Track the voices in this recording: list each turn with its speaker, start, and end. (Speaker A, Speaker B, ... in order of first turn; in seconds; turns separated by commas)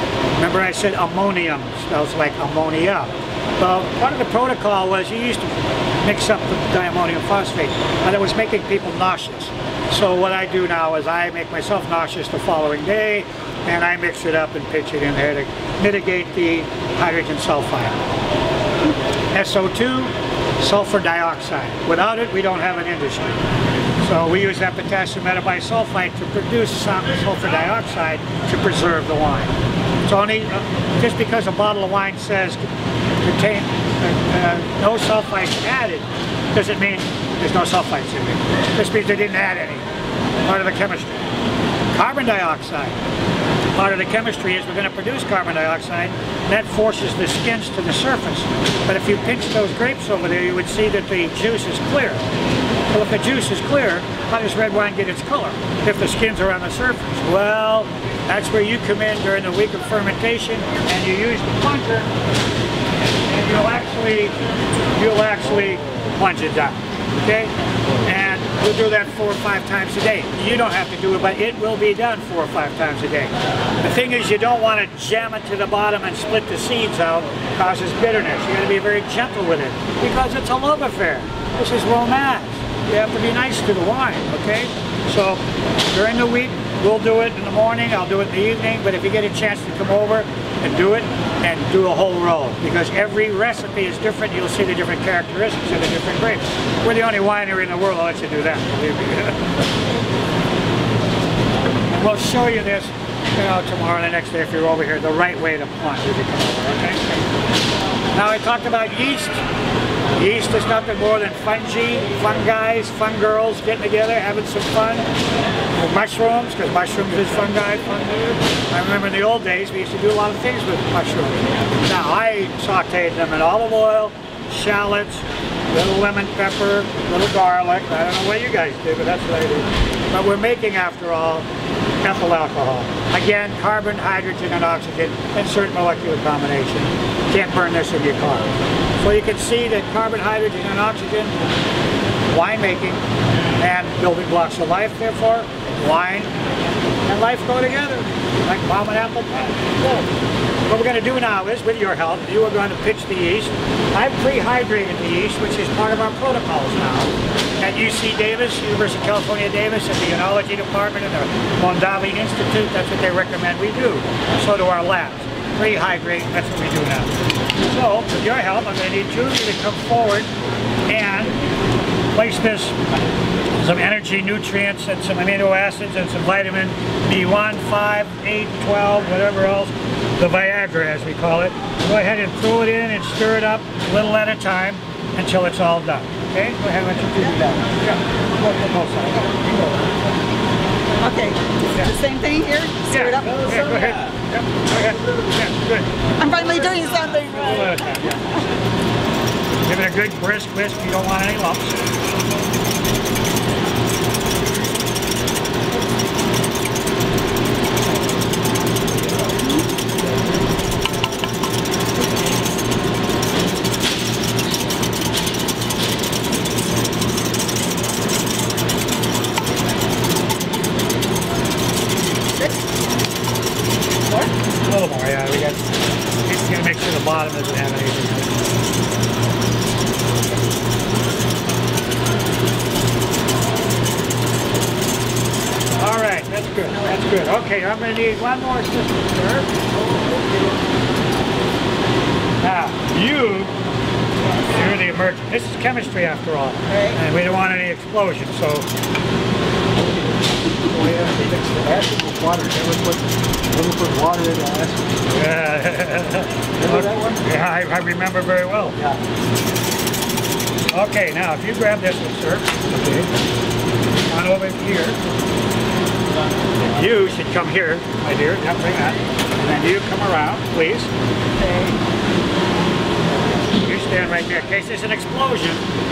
Speaker A: 0.4-18.0, Speaker A: 19.3-23.4, Speaker A: 24.0-29.6, Speaker A: 30.1-32.7, Speaker A: 33.2-39.8, Speaker A: 40.4-41.2, Speaker A: 41.9-43.0, Speaker A: 43.8-52.2, Speaker A: 52.9-62.1, Speaker A: 63.3-64.3, Speaker A: 64.9-99.4, Speaker A: 101.9-107.2, Speaker A: 108.1-109.4, Speaker A: 110.2-115.1, Speaker A: 115.8-131.5, Speaker A: 132.0-141.4, Speaker A: 142.3-143.0, Speaker A: 143.6-146.3, Speaker A: 147.1-150.1, Speaker A: 150.7-167.1, Speaker A: 167.6-170.3, Speaker A: 170.9-171.3, Speaker A: 172.1-172.8, Speaker A: 173.6-189.4, Speaker B: 191.0-193.9, Speaker A: 192.9-198.2, Speaker B: 196.2-198.3, Speaker A: 199.7-201.8, Speaker B: 224.1-224.3, Speaker A: 224.6-225.6, Speaker A: 226.2-228.4, Speaker A: 235.8-239.5, Speaker A: 242.4-243.5, Speaker A: 244.4-248.7, Speaker B: 246.7-247.0, Speaker C: 250.7-254.8, Speaker A: 255.1-258.8, Speaker C: 256.6-257.2, Speaker A: 260.7-262.6, Speaker C: 262.7-263.1, Speaker A: 264.1-265.0, Speaker A: 266.6-270.9, Speaker A: 273.6-275.6